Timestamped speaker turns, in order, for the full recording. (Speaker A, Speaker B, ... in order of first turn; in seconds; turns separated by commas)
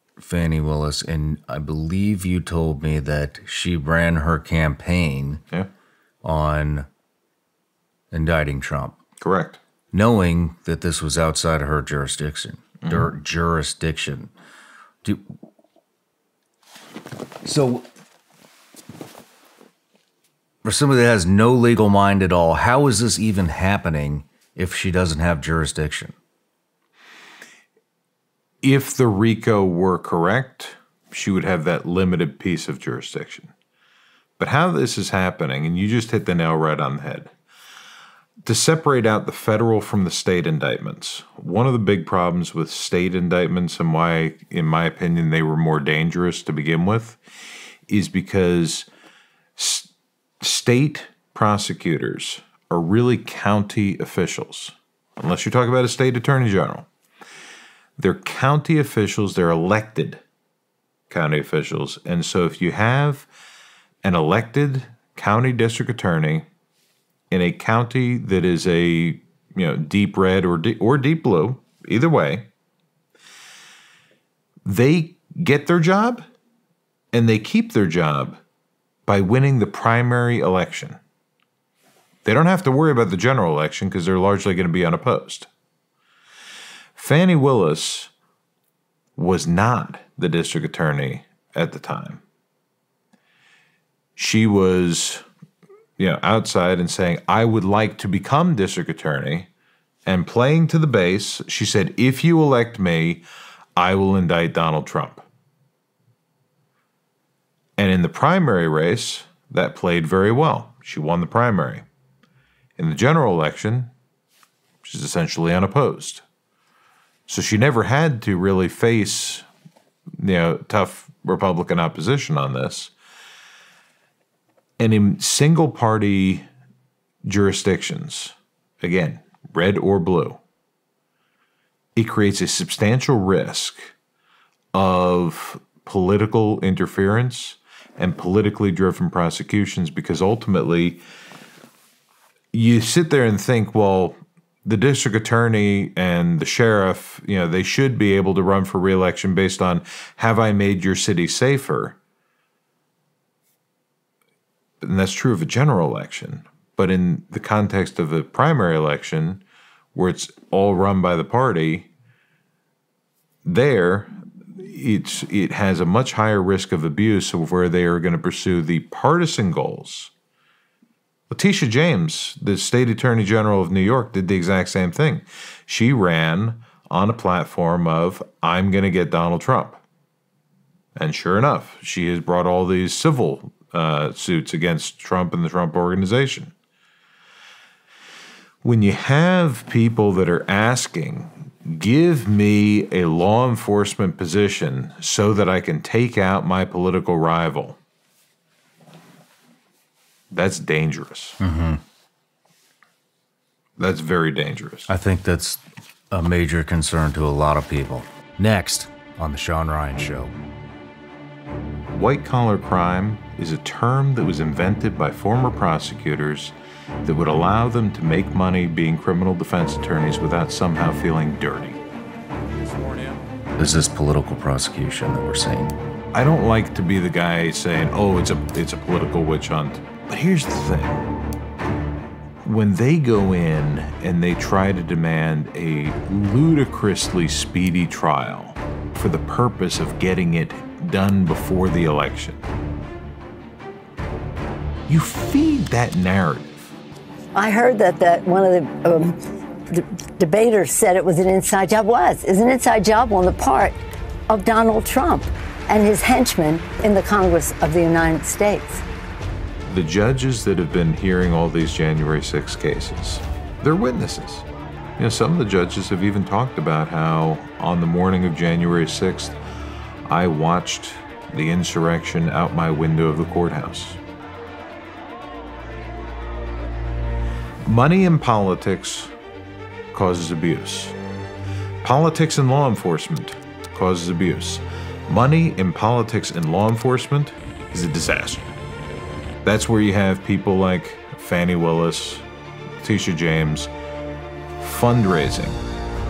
Speaker A: 0.2-5.4, Speaker A: 6.2-6.9, Speaker A: 8.1-9.0, Speaker B: 9.2-9.6, Speaker A: 9.9-14.3, Speaker B: 12.8-13.1, Speaker A: 17.4-17.9, Speaker A: 20.6-26.1, Speaker B: 28.6-33.5, Speaker B: 34.4-37.3, Speaker B: 38.4-47.2, Speaker B: 47.9-48.9, Speaker B: 49.5-49.9, Speaker B: 50.4-56.9, Speaker B: 58.0-60.2, Speaker B: 61.1-63.3, Speaker B: 64.0-66.5, Speaker B: 67.3-72.5, Speaker B: 74.6-76.2, Speaker B: 77.1-78.4, Speaker B: 79.1-81.0, Speaker B: 82.2-85.5, Speaker B: 87.0-88.1, Speaker B: 89.2-92.2, Speaker B: 94.2-95.2, Speaker B: 96.0-99.5, Speaker B: 100.0-103.2, Speaker B: 103.8-105.2, Speaker B: 107.8-111.8, Speaker B: 112.8-113.9, Speaker B: 114.8-116.2, Speaker B: 117.3-119.5, Speaker B: 120.2-122.9, Speaker B: 124.8-126.5, Speaker B: 127.2-130.4, Speaker B: 131.9-133.9, Speaker B: 134.7-141.0, Speaker B: 142.5-152.0, Speaker B: 154.8-159.4, Speaker B: 159.9-161.9, Speaker B: 163.4-170.1, Speaker B: 171.3-179.8, Speaker B: 180.9-186.5, Speaker B: 188.6-197.8, Speaker B: 200.3-201.4, Speaker A: 201.4-201.8, Speaker B: 203.8-204.9, Speaker A: 204.9-210.3, Speaker B: 211.9-221.8, Speaker B: 222.8-223.2, Speaker A: 223.6-225.8, Speaker B: 226.1-231.0, Speaker B: 232.4-242.4, Speaker B: 244.9-246.7, Speaker C: 247.3-258.8, Speaker B: 259.7-264.4, Speaker B: 265.0-269.4, Speaker B: 270.1-274.0, Speaker B: 277.6-279.1, Speaker B: 279.9-281.0, Speaker B: 281.8-288.5, Speaker B: 289.4-292.2, Speaker B: 292.8-293.7, Speaker B: 294.6-295.6